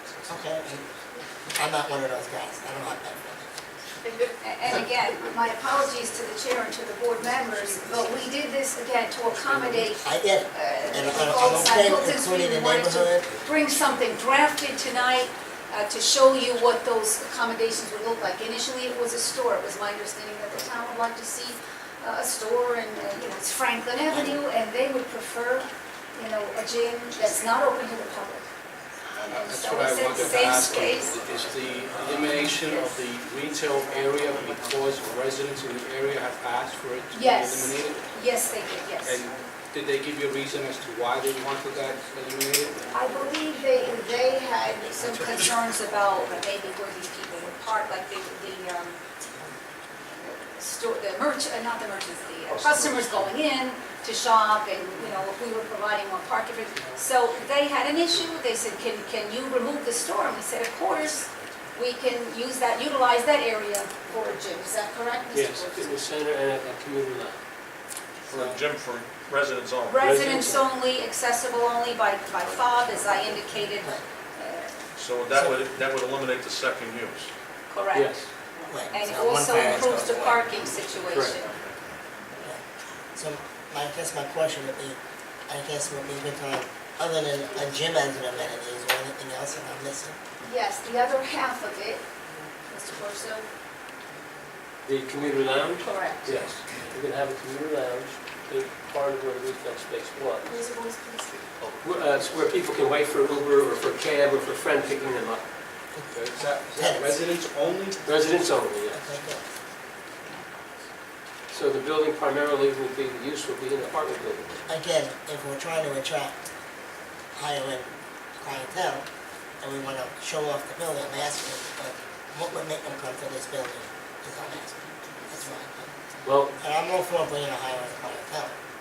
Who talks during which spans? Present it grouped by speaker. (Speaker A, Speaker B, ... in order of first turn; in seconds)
Speaker A: 0.3-0.9, 1.6-3.5, 10.0-13.3, 68.3-68.6, 78.7-80.4, 83.2-90.2, 106.8-107.2, 108.9-109.4, 114.7-116.3, 117.3-119.0, 119.6-125.9, 126.6-128.6
Speaker B: 4.4-28.4, 29.1-31.2, 37.1-39.2, 42.9-49.0, 50.2-65.9, 69.9-74.8, 77.7-78.2, 78.9-81.5, 90.4-92.0, 92.7-93.5, 95.8-96.3, 100.5-101.4
Speaker C: 29.3-38.1, 39.0-42.8, 106.1-108.4
Speaker D: 65.3-67.4, 70.0-70.7, 77.9-78.3, 81.1-81.4, 94.8-100.5, 101.8-105.4, 108.1-109.0, 111.5-114.6, 126.2-126.5
Speaker E: 68.3-70.1, 75.0-77.3